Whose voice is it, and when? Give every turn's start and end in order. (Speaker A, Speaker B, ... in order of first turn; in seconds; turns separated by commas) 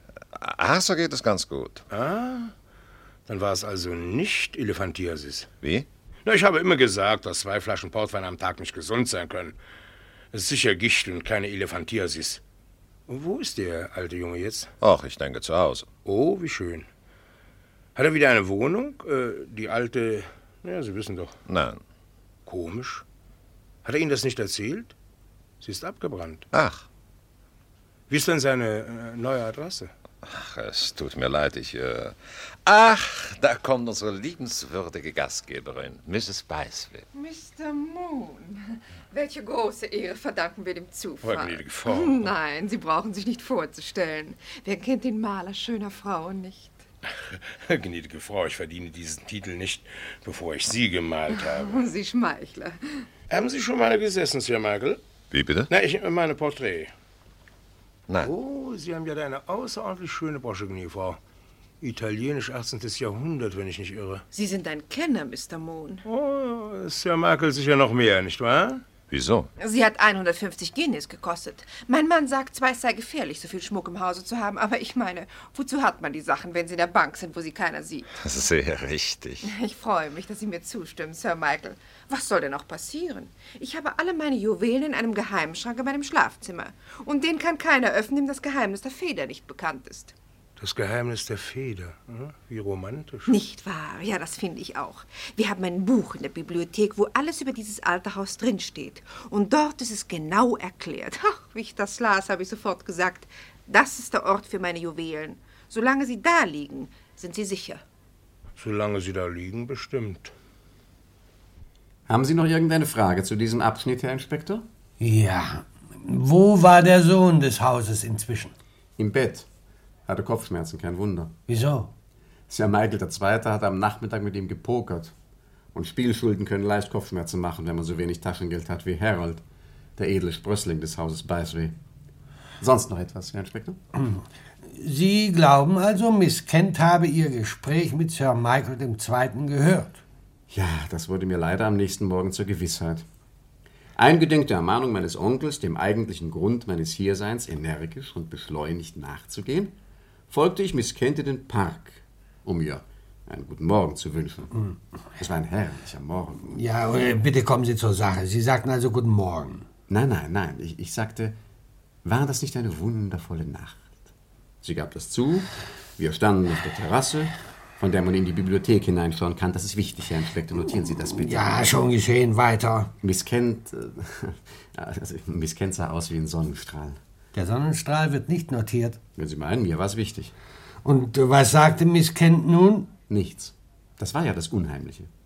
Speaker A: 0.3-1.8, Speaker B: 1.9-2.5, Speaker B: 3.3-5.5, Speaker A: 5.6-5.9, Speaker B: 6.2-9.6, Speaker B: 10.3-12.4, Speaker B: 13.1-14.7, Speaker A: 14.8-15.9, Speaker B: 16.0-16.9, Speaker B: 17.9-21.3, Speaker A: 21.5-21.8, Speaker B: 22.5-23.0, Speaker B: 23.8-24.9, Speaker B: 25.6-26.5, Speaker A: 26.5-26.8, Speaker B: 28.1-29.9, Speaker A: 30.2-37.0, Speaker C: 37.1-46.8, Speaker B: 41.2-42.3, Speaker B: 47.3-51.9, Speaker C: 51.3-53.0, Speaker B: 53.3-55.0, Speaker A: 55.3-55.7, Speaker B: 55.7-56.9, Speaker B: 58.2-61.2, Speaker B: 61.8-64.2, Speaker C: 64.3-66.0, Speaker B: 66.0-68.8, Speaker A: 69.1-69.5, Speaker C: 69.6-78.1, Speaker A: 78.2-79.5, Speaker C: 79.4-90.1, Speaker B: 90.6-93.3, Speaker C: 93.3-107.8, Speaker B: 108.6-110.3, Speaker D: 112.1-114.6, Speaker E: 115.0-118.5, Speaker D: 119.0-119.5, Speaker D: 120.1-121.3, Speaker E: 121.5-121.9, Speaker D: 122.5-125.1, Speaker D: 125.7-129.4, Speaker D: 130.0-131.7, Speaker D: 132.6-133.8, Speaker E: 134.0-140.0, Speaker D: 140.5-143.0, Speaker D: 143.9-149.8, Speaker D: 150.3-154.5, Speaker D: 155.2-156.5, Speaker E: 156.5-159.7, Speaker D: 159.9-161.4, Speaker D: 162.0-163.9, Speaker D: 164.6-171.7, Speaker E: 171.2-172.9, Speaker D: 173.0-177.0, Speaker E: 177.3-179.0, Speaker D: 179.2-180.3, Speaker E: 180.8-182.9, Speaker D: 183.1-185.1